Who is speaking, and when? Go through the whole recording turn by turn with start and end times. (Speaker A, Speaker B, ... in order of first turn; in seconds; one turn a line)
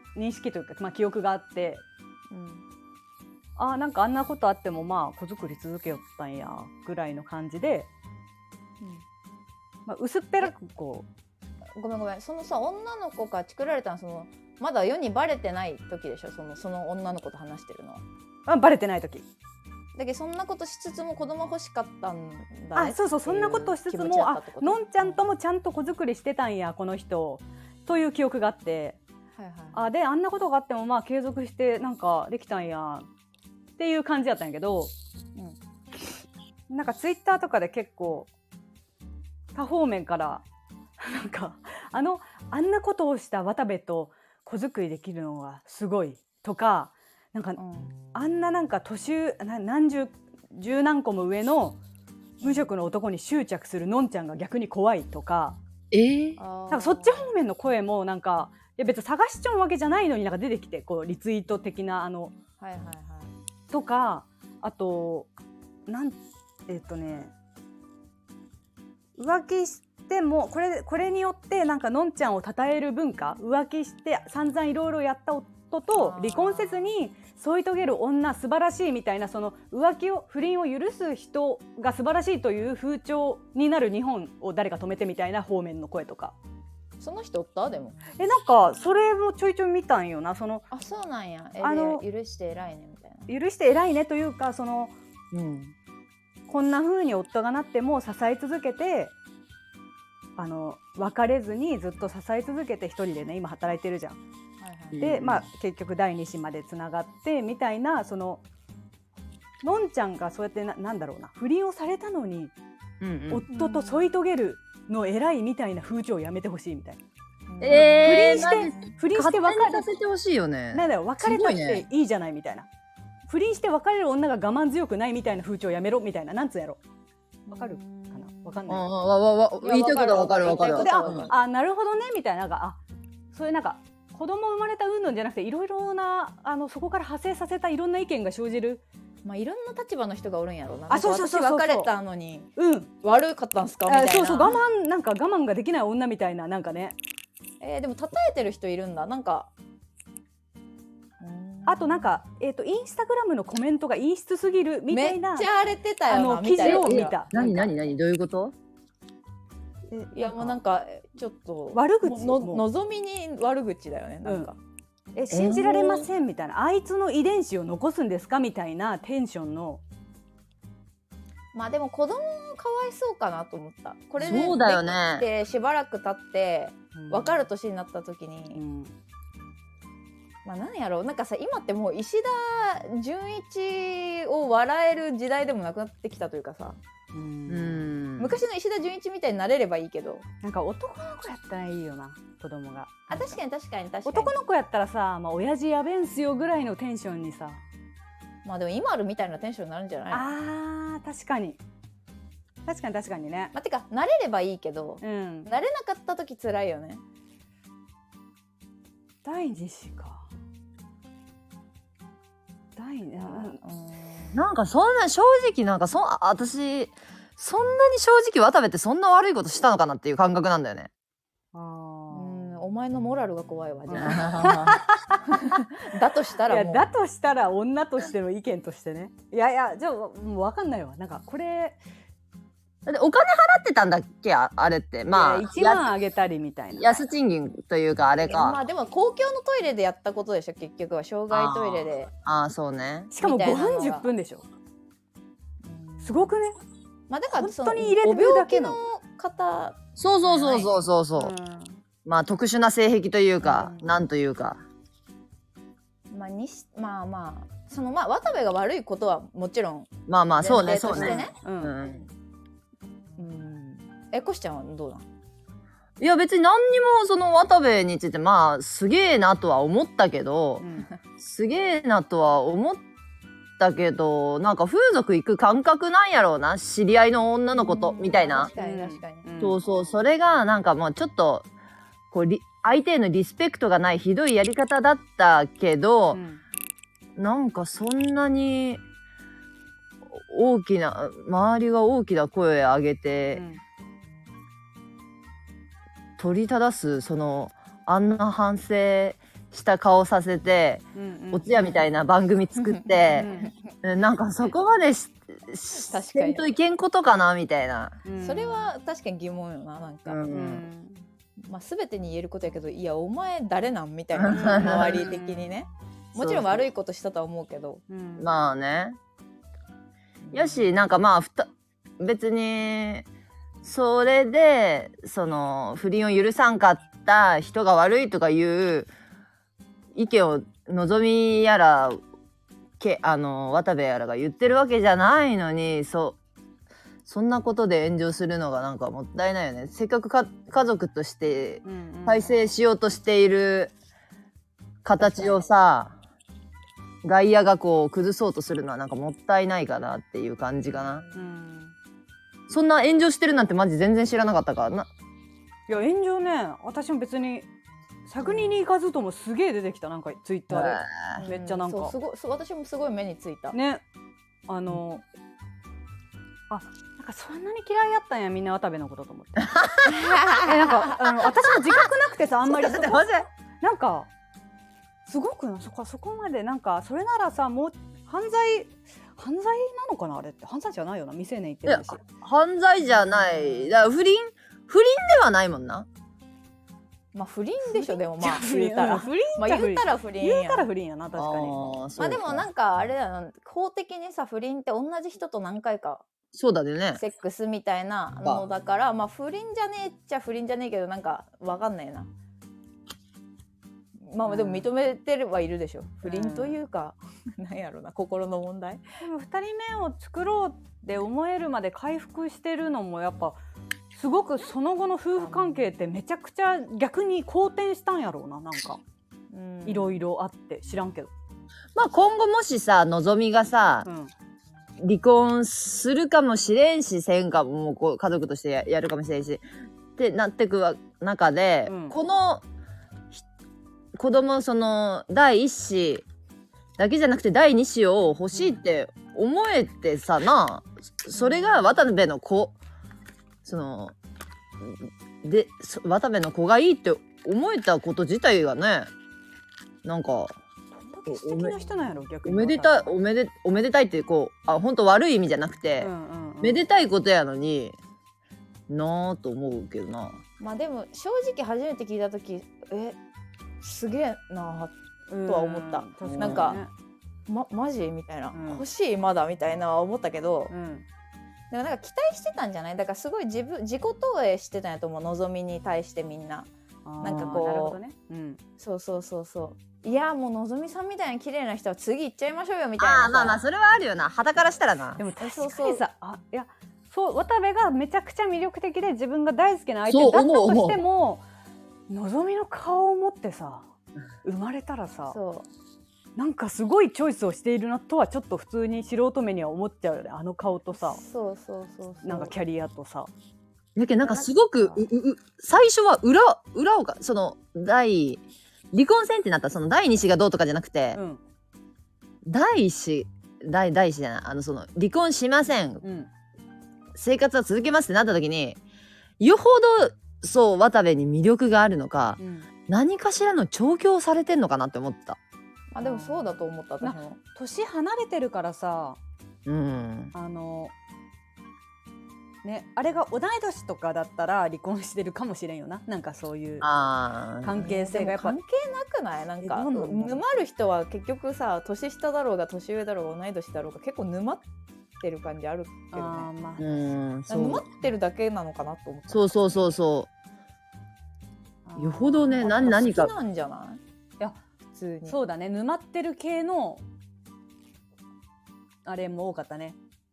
Speaker A: 0.1-1.8
Speaker B: 2.3-2.6
Speaker A: 3.6-7.9
Speaker A: 9.9-11.1
Speaker B: 11.8-18.0
Speaker A: 18.5-19.3
Speaker B: 19.9-25.2
Speaker A: 22.8-29.0
Speaker B: 29.4-29.8
Speaker A: 29.7-33.1
Speaker A: 33.8-34.9
Speaker A: 36.7-38.3
Speaker A: 39.5-40.4
Speaker A: 41.0-47.6
Speaker B: 47.6-48.0
Speaker A: 48.1-51.8
Speaker A: 52.4-55.6
Speaker B: 52.4-52.7
Speaker C: 55.9-56.4
Speaker B: 56.4-57.3
Speaker A: 56.7-62.3
Speaker B: 62.6-63.3
Speaker A: 63.7-65.3
Speaker A: 65.9-67.3
Speaker A: 69.2-86.3
Speaker B: 75.9-77.0
Speaker B: 87.0-88.0
Speaker A: 88.2-90.7
Speaker B: 90.7-93.3
Speaker A: 91.6-92.0
Speaker A: 93.3-94.9
Speaker A: 96.5-99.1
Speaker A: 100.4-104.2
Speaker B: 104.6-105.0
Speaker C: 105.0-105.5
Speaker A: 105.0-108.4
Speaker A: 109.6-112.5
Speaker C: 113.0-113.5
Speaker A: 113.3-117.0
Speaker B: 113.5-114.1
Speaker B: 117.5-118.6
Speaker C: 117.6-121.9
Speaker A: 117.7-119.9
Speaker A: 120.7-122.7
Speaker A: 123.3-126.8
Speaker B: 127.5-128.7
Speaker A: 127.5-128.8
Speaker C: 128.7-131.3
Speaker B: 129.6-131.4
Speaker A: 130.6-132.8
Speaker A: 133.3-138.8
Speaker B: 139.2-142.5
Speaker A: 140.9-141.9
Speaker A: 142.6-142.9
Speaker B: 143.0-144.6
Speaker A: 143.9-147.0
Speaker B: 147.6-149.5
Speaker B: 151.2-152.2
Speaker A: 151.7-155.5
Speaker B: 154.9-157.5
Speaker A: 156.1-157.7
Speaker C: 156.6-158.5
Speaker A: 159.9-160.6
Speaker B: 160.1-164.6
Speaker A: 161.7-162.6
Speaker A: 164.2-164.5
Speaker A: 165.2-169.8
Speaker C: 165.3-166.1
Speaker B: 171.5-178.6
Speaker C: 174.2-175.2
Speaker A: 176.9-177.4
Speaker A: 178.6-178.9
Speaker B: 180.4-186.8
Speaker A: 187.1-187.9
Speaker C: 187.5-188.4
Speaker B: 188.2-190.2
Speaker A: 190.4-193.4
Speaker B: 193.1-194.4
Speaker A: 194.1-197.6
Speaker B: 198.4-200.3
Speaker A: 200.1-201.6
Speaker A: 202.7-203.5
Speaker B: 203.5-207.0
Speaker A: 205.0-205.5
Speaker A: 209.2-210.3
Speaker A: 212.8-213.6
Speaker B: 213.2-214.4
Speaker C: 214.3-220.9
Speaker A: 221.5-222.4
Speaker B: 222.1-224.6
Speaker A: 223.9-225.6
Speaker C: 223.9-224.8
Speaker B: 225.3-226.9
Speaker A: 226.5-231.8
Speaker C: 232.9-235.9
Speaker A: 235.1-237.0
Speaker C: 236.8-238.6
Speaker B: 238.3-242.1
Speaker C: 241.3-243.1
Speaker A: 243.1-244.4
Speaker B: 243.2-244.1
Speaker B: 245.6-246.4
Speaker A: 246.0-246.6
Speaker B: 247.1-250.7
Speaker A: 247.4-248.8
Speaker C: 250.0-251.3
Speaker A: 251.2-251.8
Speaker C: 252.1-254.6
Speaker B: 253.4-253.9
Speaker B: 256.1-261.3
Speaker C: 260.1-262.1
Speaker A: 261.0-261.7
Speaker B: 263.2-265.1
Speaker C: 266.0-270.7
Speaker A: 270.6-270.9
Speaker C: 271.2-272.8
Speaker C: 273.6-278.5
Speaker B: 277.6-279.3
Speaker A: 278.6-279.6
Speaker C: 279.4-281.5
Speaker C: 282.1-286.2
Speaker A: 286.1-286.4
Speaker C: 287.2-288.8
Speaker C: 290.1-293.4
Speaker A: 293.3-293.6
Speaker C: 296.2-308.0
Speaker A: 300.9-301.5
Speaker B: 302.6-303.5
Speaker A: 303.1-303.5
Speaker B: 305.8-306.5
Speaker A: 308.1-308.7
Speaker B: 308.1-310.4
Speaker C: 310.1-310.6
Speaker A: 310.3-311.0
Speaker B: 311.4-317.8
Speaker C: 314.1-315.0
Speaker A: 314.3-315.4
Speaker C: 316.1-316.7
Speaker A: 317.9-318.3
Speaker C: 318.2-319.0
Speaker B: 320.2-320.6
Speaker C: 320.3-323.1
Speaker C: 323.6-328.9
Speaker C: 329.9-332.0
Speaker C: 332.8-336.2
Speaker C: 337.1-343.7
Speaker A: 341.6-342.3
Speaker C: 344.8-346.0
Speaker C: 347.0-351.1
Speaker A: 351.1-351.7
Speaker C: 352.5-354.9
Speaker A: 355.7-357.5
Speaker A: 358.1-361.9
Speaker B: 358.2-358.6
Speaker C: 360.5-361.2
Speaker B: 361.1-363.6
Speaker A: 363.5-363.8
Speaker A: 364.5-365.0
Speaker A: 366.5-369.6
Speaker C: 369.5-369.9
Speaker B: 369.9-370.8
Speaker A: 370.3-374.1
Speaker C: 372.5-373.3
Speaker A: 375.1-382.0
Speaker C: 381.6-385.9
Speaker B: 387.1-390.7
Speaker A: 387.7-391.8
Speaker C: 391.2-392.4
Speaker B: 392.0-396.1
Speaker C: 396.3-397.0
Speaker B: 396.9-402.1
Speaker B: 404.0-408.8
Speaker A: 404.3-404.7
Speaker A: 406.0-406.6
Speaker A: 409.0-413.4
Speaker A: 413.9-418.8
Speaker B: 415.2-415.7
Speaker B: 419.3-420.0
Speaker A: 419.7-421.1
Speaker C: 421.8-423.9
Speaker A: 423.9-424.1
Speaker C: 424.8-429.4
Speaker C: 430.0-432.4
Speaker A: 431.7-432.0
Speaker C: 433.9-436.1
Speaker C: 436.8-442.6
Speaker A: 438.3-438.6
Speaker A: 441.1-441.8
Speaker C: 443.4-443.9
Speaker C: 444.6-448.9
Speaker C: 449.9-450.4
Speaker A: 450.8-452.9
Speaker C: 451.1-451.6
Speaker C: 452.2-457.8
Speaker A: 455.8-456.6
Speaker C: 458.7-460.2
Speaker B: 460.4-463.0
Speaker B: 463.6-466.6
Speaker A: 465.1-466.7
Speaker C: 466.0-466.6
Speaker B: 467.3-470.5
Speaker A: 468.3-468.6
Speaker A: 470.5-470.9
Speaker B: 471.5-477.8
Speaker A: 476.9-478.4
Speaker B: 478.6-483.4
Speaker C: 482.8-485.0
Speaker A: 485.0-491.2
Speaker B: 485.2-485.8
Speaker C: 489.9-490.8
Speaker A: 491.9-493.7
Speaker A: 494.2-495.2
Speaker B: 495.1-495.5
Speaker A: 496.2-501.0
Speaker B: 500.7-502.3
Speaker A: 502.0-503.1
Speaker C: 503.8-508.2
Speaker B: 504.1-504.8
Speaker C: 508.7-511.0
Speaker A: 510.9-511.2
Speaker C: 512.2-515.8
Speaker A: 515.8-516.1
Speaker C: 517.0-518.6
Speaker C: 519.2-525.2
Speaker A: 522.2-522.5
Speaker B: 525.7-527.2
Speaker A: 525.8-526.3
Speaker A: 526.8-529.0
Speaker C: 529.5-530.1
Speaker A: 530.1-530.7
Speaker A: 532.4-536.7
Speaker C: 536.6-537.7
Speaker A: 537.4-538.4
Speaker B: 537.6-544.5
Speaker A: 539.4-540.2
Speaker B: 545.0-546.3
Speaker A: 545.9-546.7
Speaker C: 546.6-547.7
Speaker B: 547.3-549.5
Speaker C: 549.1-550.1
Speaker A: 551.7-552.4
Speaker C: 551.8-553.1
Speaker B: 552.3-553.8
Speaker B: 554.7-555.2
Speaker A: 555.1-556.8
Speaker A: 558.9-559.8